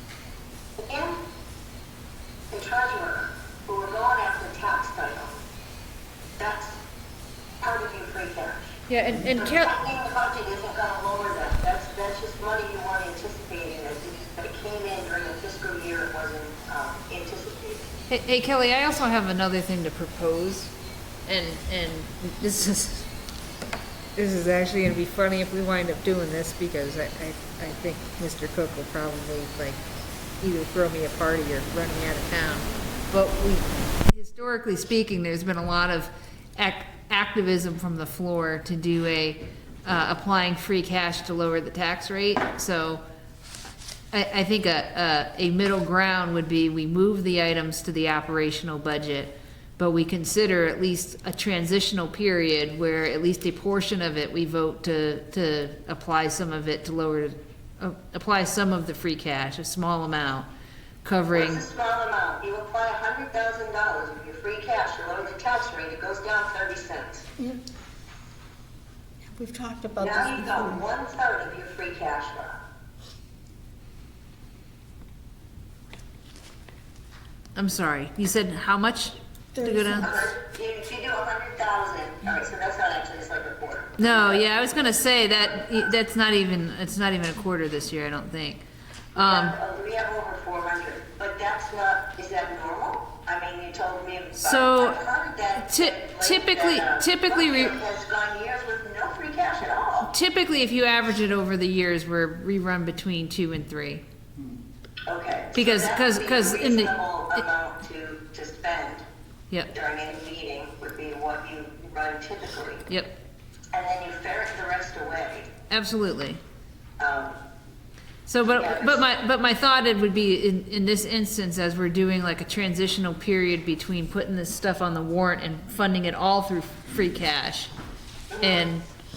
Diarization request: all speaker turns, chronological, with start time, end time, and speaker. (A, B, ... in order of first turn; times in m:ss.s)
0:00.9-0:01.2 A
0:02.5-0:05.4 A
0:06.4-0:06.8 A
0:07.6-0:17.9 A
0:08.9-0:09.7 B
0:18.1-0:20.7 B
0:21.3-0:23.1 B
0:24.2-0:29.8 B
0:30.4-0:43.0 B
0:44.1-1:00.5 B
1:01.0-1:01.6 B
1:01.3-1:07.3 A
1:09.4-1:10.8 C
1:10.0-1:12.6 A
1:17.6-1:20.1 B
1:19.6-1:20.2 C
1:20.0-1:25.0 A
1:24.0-1:28.6 B
1:29.2-1:40.1 A
1:29.2-1:29.6 B
1:34.4-1:35.0 B
1:35.6-1:37.8 B
1:40.1-1:44.0 B
1:45.1-1:49.0 A
1:45.5-1:46.9 B
1:49.7-1:52.8 A
1:53.7-1:55.5 A
1:55.7-1:56.4 B
1:57.0-1:57.4 A
1:58.3-2:07.7 B
1:58.4-1:59.0 A
2:08.3-2:08.7 A
2:08.4-2:08.9 B